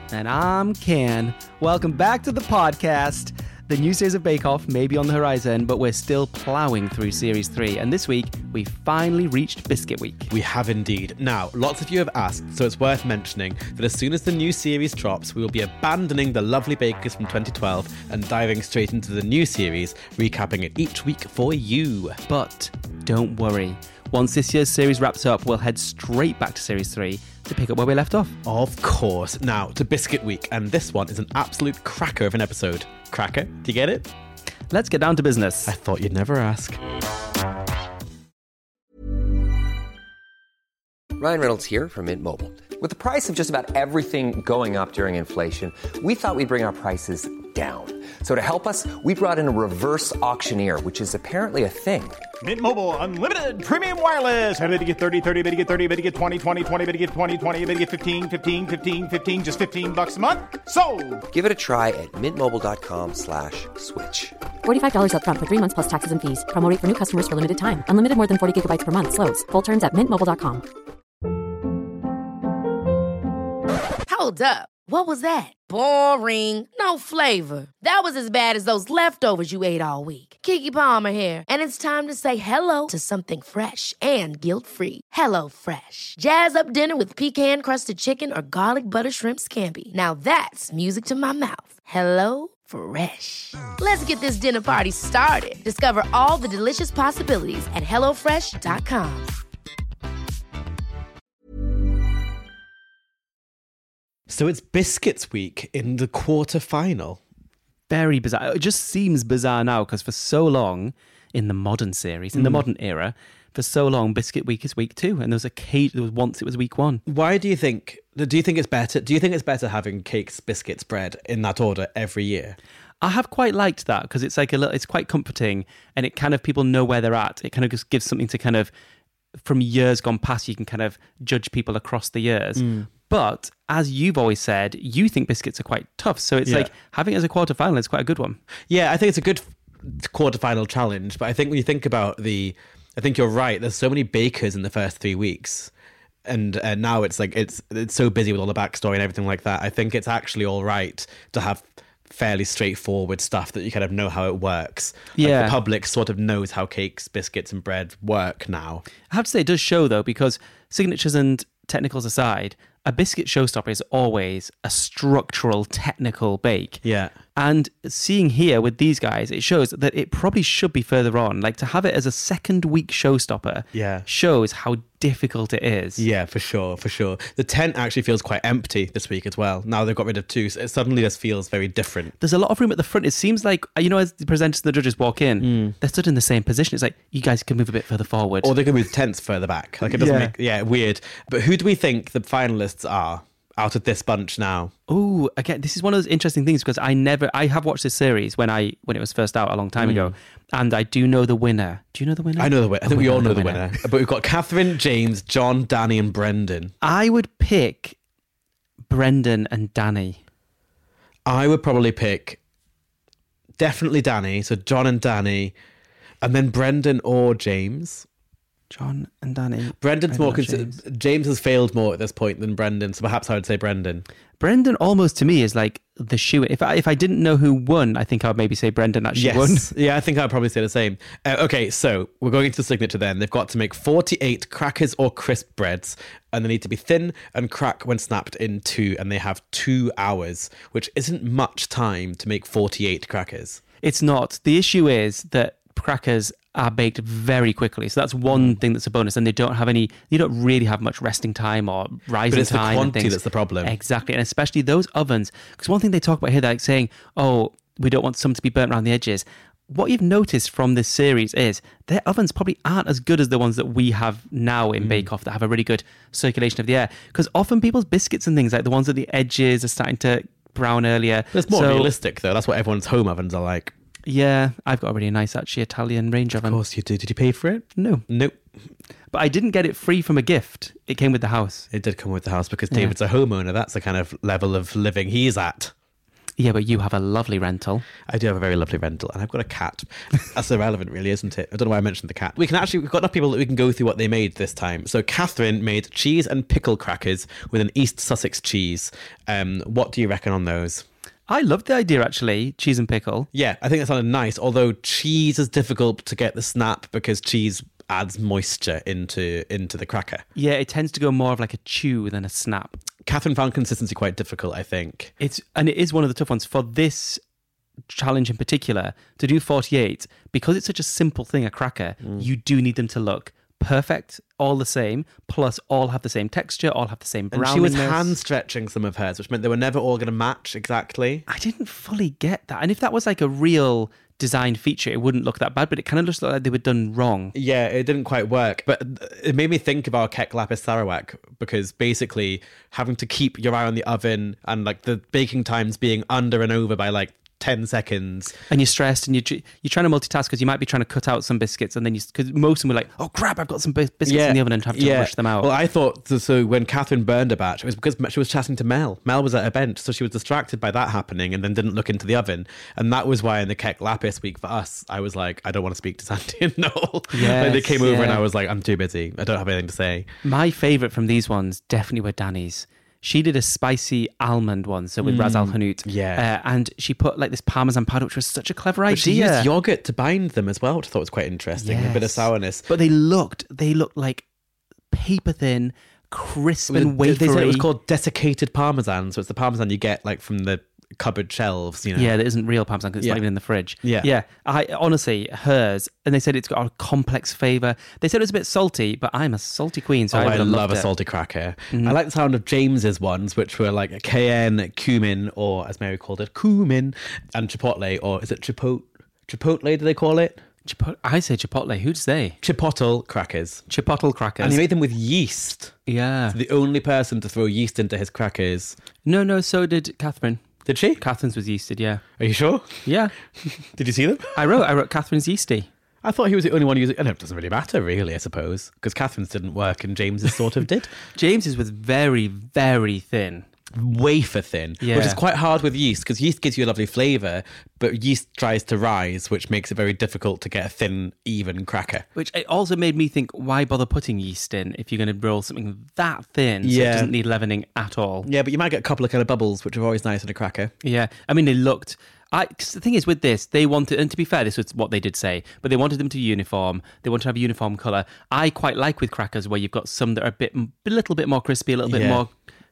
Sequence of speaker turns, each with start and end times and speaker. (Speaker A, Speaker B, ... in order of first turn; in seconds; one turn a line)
Speaker A: 0.1-10.3
Speaker B: 10.3-22.2
Speaker A: 22.3-28.4
Speaker B: 28.4-34.1
Speaker A: 34.7-35.7
Speaker B: 35.6-36.8
Speaker C: 41.2-52.2
Speaker D: 52.4-61.2
Speaker C: 61.3-64.3
Speaker E: 64.6-70.6
Speaker F: 74.1-99.3
Speaker B: 104.3-107.2
Speaker A: 107.9-117.0
Speaker B: 112.3-112.6
Speaker B: 117.0-122.6
Speaker A: 123.0-128.7
Speaker A: 129.4-138.4
Speaker B: 132.6-132.9
Speaker B: 136.4-136.7
Speaker B: 138.7-145.7
Speaker B: 146.2-158.8
Speaker A: 155.2-155.6
Speaker A: 159.1-166.8
Speaker B: 166.8-167.1
Speaker A: 167.3-176.0
Speaker B: 173.7-174.1
Speaker B: 176.0-182.1
Speaker A: 182.2-188.5
Speaker B: 185.4-185.8
Speaker B: 188.4-194.7
Speaker A: 189.8-190.3
Speaker A: 194.9-203.7
Speaker B: 199.8-200.1
Speaker B: 202.4-206.7
Speaker A: 206.8-207.9
Speaker A: 208.9-210.2
Speaker B: 211.2-212.4
Speaker B: 213.6-215.5
Speaker B: 216.2-218.1
Speaker A: 218.7-220.8
Speaker B: 219.8-224.1
Speaker A: 224.4-229.7
Speaker B: 229.1-243.6
Speaker A: 243.8-271.9
Speaker B: 248.3-248.6
Speaker B: 252.3-253.8
Speaker B: 264.8-265.1
Speaker B: 271.3-273.7
Speaker A: 274.1-276.6
Speaker B: 276.4-278.4
Speaker A: 277.8-278.0
Speaker A: 279.1-281.7
Speaker B: 281.7-285.7
Speaker A: 286.4-287.9
Speaker B: 288.1-300.8
Speaker A: 301.3-303.3
Speaker B: 303.3-310.2
Speaker A: 310.4-312.8
Speaker B: 313.0-315.1
Speaker A: 315.2-317.2
Speaker A: 317.9-328.2
Speaker B: 327.3-331.2
Speaker A: 331.3-337.3
Speaker B: 337.3-348.4
Speaker A: 348.5-355.5
Speaker B: 354.0-370.1
Speaker A: 367.1-368.2
Speaker A: 370.2-379.5
Speaker B: 375.0-376.2
Speaker B: 378.9-382.7
Speaker A: 381.6-384.2
Speaker A: 384.9-387.7
Speaker B: 386.7-392.1
Speaker A: 391.9-400.9
Speaker B: 393.8-394.1
Speaker B: 400.1-410.4
Speaker A: 401.7-402.0
Speaker A: 410.6-412.4
Speaker B: 412.4-413.6
Speaker A: 413.7-414.6
Speaker B: 414.4-415.8
Speaker A: 415.9-416.4
Speaker B: 416.3-418.8
Speaker A: 419.1-420.4
Speaker B: 420.6-421.0
Speaker A: 421.0-422.0
Speaker B: 422.2-422.8
Speaker A: 422.8-423.1
Speaker B: 423.4-424.4
Speaker A: 424.3-425.7
Speaker B: 426.0-430.9
Speaker A: 431.1-433.4
Speaker B: 433.7-442.1
Speaker A: 434.8-435.2
Speaker A: 442.1-448.3
Speaker B: 446.6-447.1
Speaker B: 448.2-450.7
Speaker A: 450.8-462.3
Speaker B: 461.9-462.2